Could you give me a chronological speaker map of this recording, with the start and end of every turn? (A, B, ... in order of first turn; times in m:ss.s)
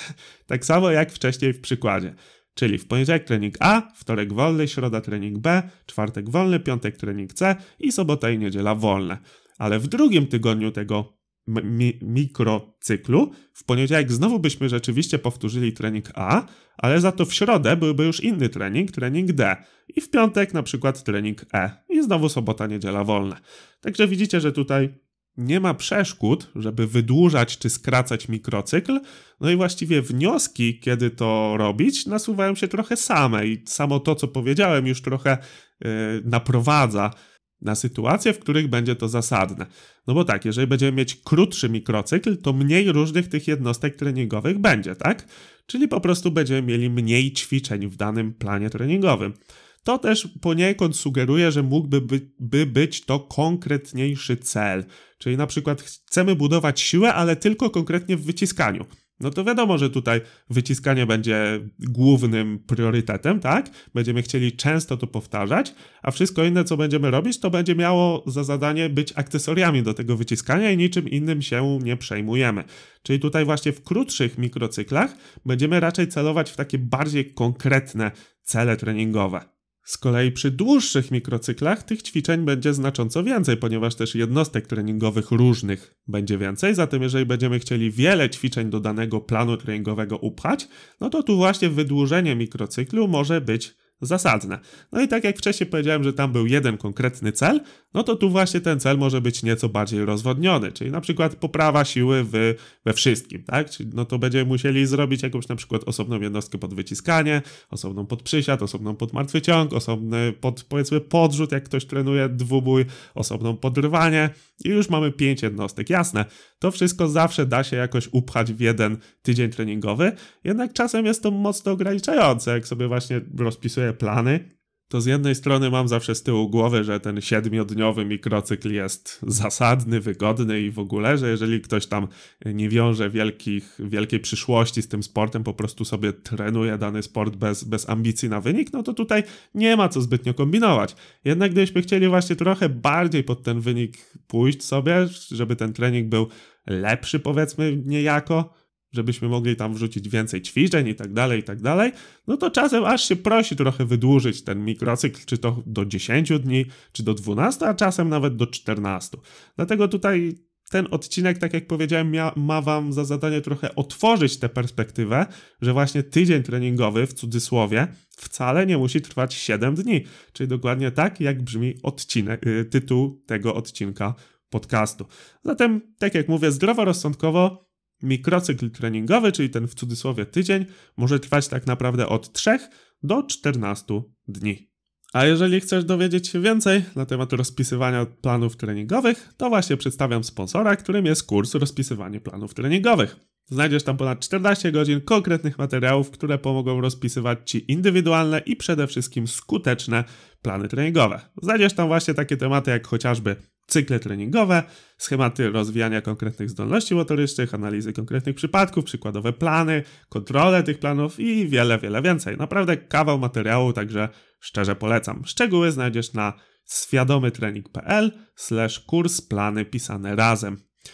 0:00.5-3:40.6 A